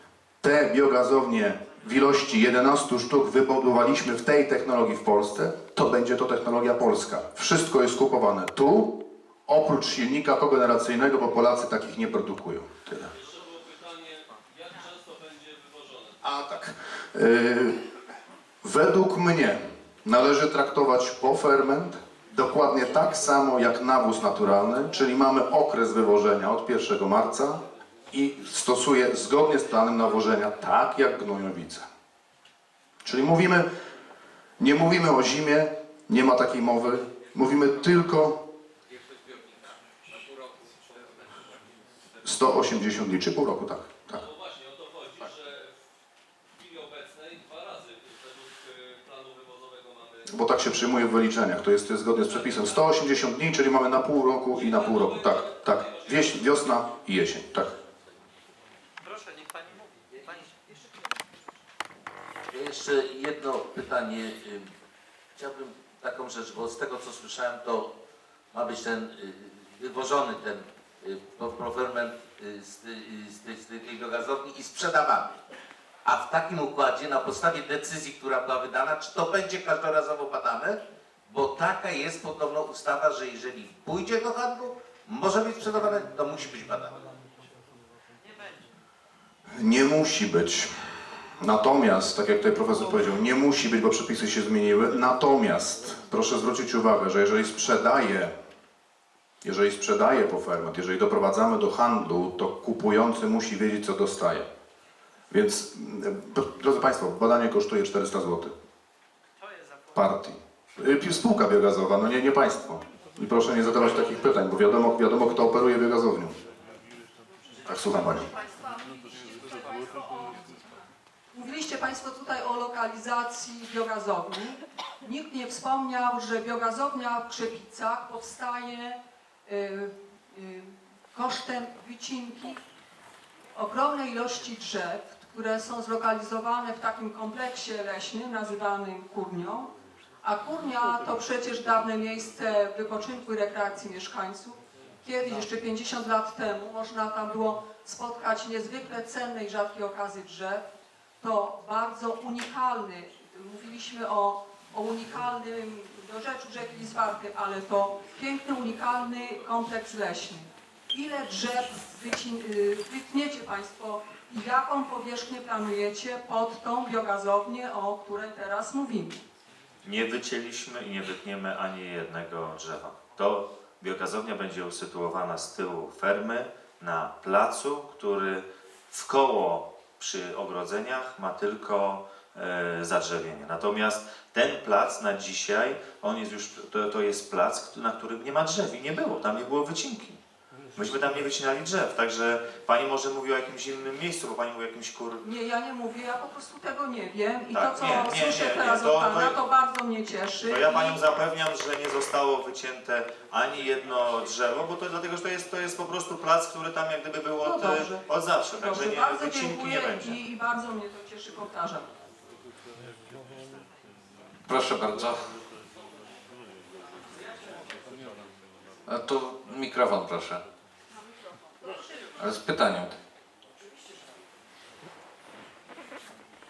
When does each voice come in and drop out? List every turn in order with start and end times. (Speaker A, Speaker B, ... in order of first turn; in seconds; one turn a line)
Speaker A: 0.4-13.1
Speaker B: 13.1-16.2
Speaker A: 16.2-17.8
Speaker A: 18.6-31.8
Speaker A: 33.0-33.7
Speaker A: 34.6-38.4
Speaker C: 39.1-39.6
Speaker A: 42.2-44.2
Speaker B: 44.1-45.7
Speaker B: 46.5-50.4
Speaker A: 50.3-57.7
Speaker B: 52.2-53.0
Speaker B: 54.5-56.7
Speaker D: 59.0-60.9
Speaker C: 62.5-64.7
Speaker C: 65.3-67.9
Speaker C: 68.5-75.4
Speaker C: 76.0-87.0
Speaker D: 88.2-88.7
Speaker A: 89.6-90.7
Speaker A: 91.4-98.3
Speaker A: 99.4-104.5
Speaker A: 105.3-108.5
Speaker A: 109.9-116.3
Speaker A: 117.7-118.3
Speaker E: 119.2-120.4
Speaker E: 121.3-132.6
Speaker E: 133.5-139.7
Speaker E: 140.2-150.6
Speaker E: 151.2-169.2
Speaker F: 169.8-190.2
Speaker F: 190.7-195.2
Speaker E: 195.2-201.0
Speaker F: 197.5-199.4
Speaker F: 200.4-210.2
Speaker E: 207.4-211.9
Speaker G: 214.5-215.2
Speaker G: 218.8-220.4
Speaker G: 222.2-222.9